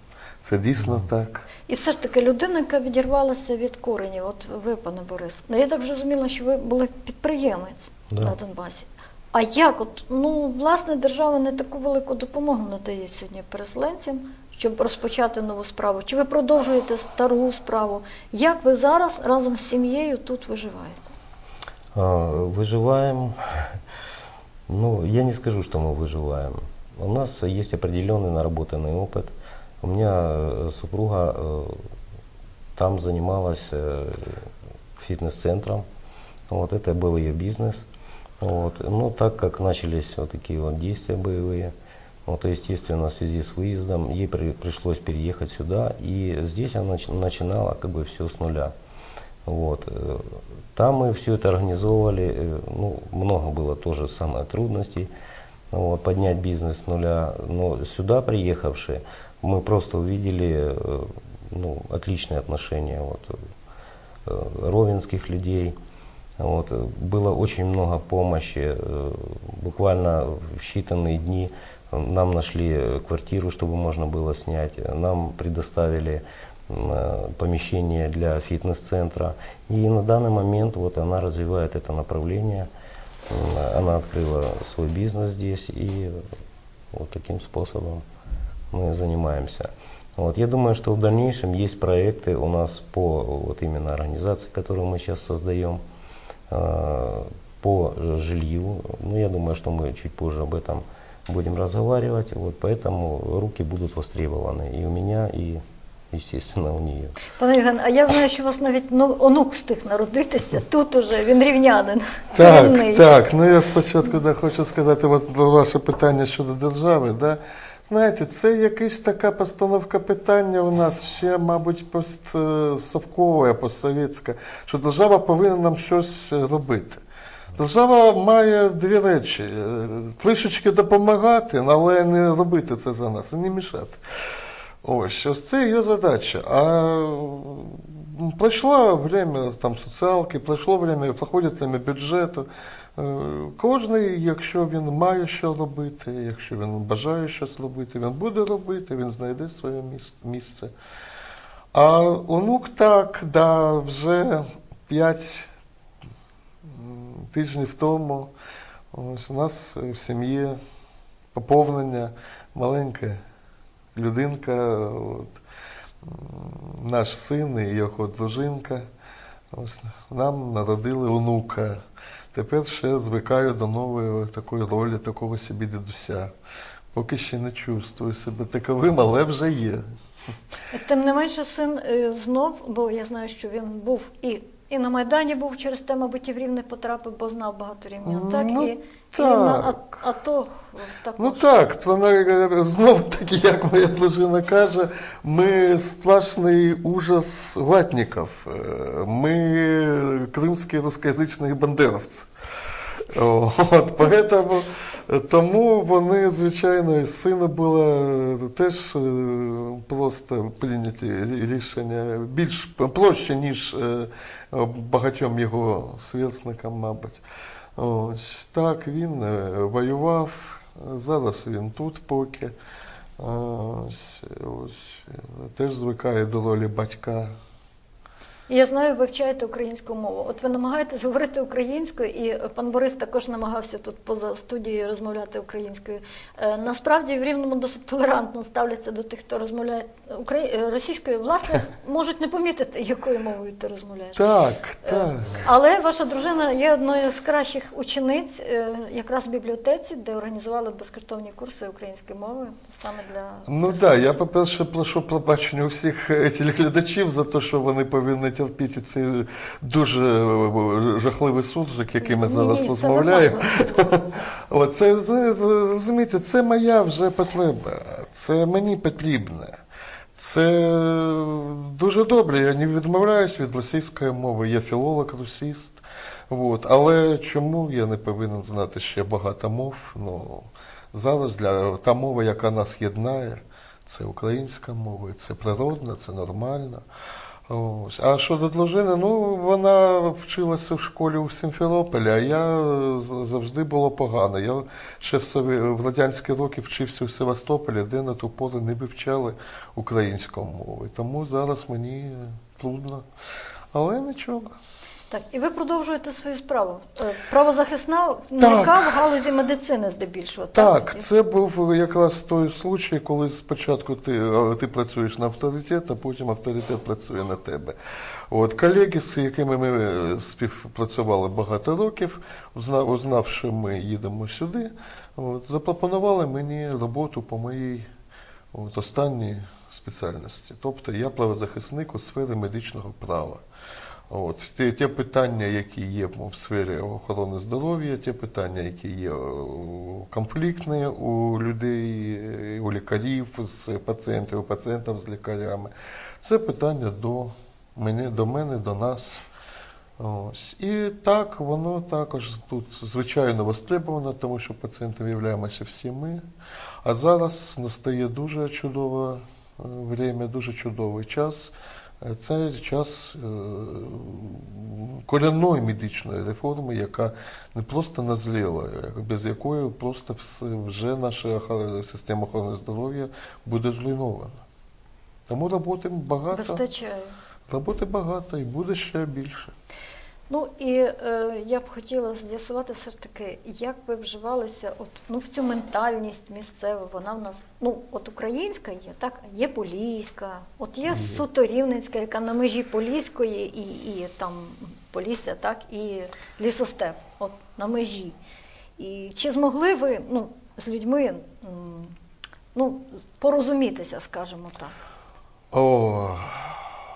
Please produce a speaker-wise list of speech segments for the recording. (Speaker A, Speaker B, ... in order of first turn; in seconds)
Speaker A: 0.4-1.5, 112.3-127.0, 127.6-134.0, 134.8-150.7, 151.7-155.5, 156.7-158.3, 158.9-160.6, 161.3-163.2, 163.9-165.3, 166.0-168.8, 169.5-171.8, 172.3-176.3, 176.9-179.8, 188.1-189.8, 191.2-202.3, 203.1-217.2, 217.8-222.5, 223.2-227.3, 244.2-245.4, 253.5-269.6, 270.2-286.8, 287.5-303.1, 303.7-304.6, 308.4-308.9, 310.6-317.8, 318.3-327.9, 328.5-333.4, 334.1-349.2, 350.0-356.2, 356.8-374.4, 375.3-376.6, 377.5-379.5, 405.5-406.5
Speaker B: 1.7-21.1, 107.4-113.1, 180.7-191.6, 228.5-244.2, 244.8-254.2, 262.0-263.7, 305.1-311.1, 376.3-377.1, 380.3-398.2, 398.8-401.9, 402.5-404.7
Speaker C: 8.1-8.4, 21.9-23.8, 24.7-31.9, 32.8-35.8, 36.5-37.9, 38.4-41.7, 42.2-48.7, 49.4-55.1, 55.7-63.4, 64.2-65.8, 66.4-82.7, 83.3-86.2, 86.9-88.0, 88.7-95.8, 96.5-107.1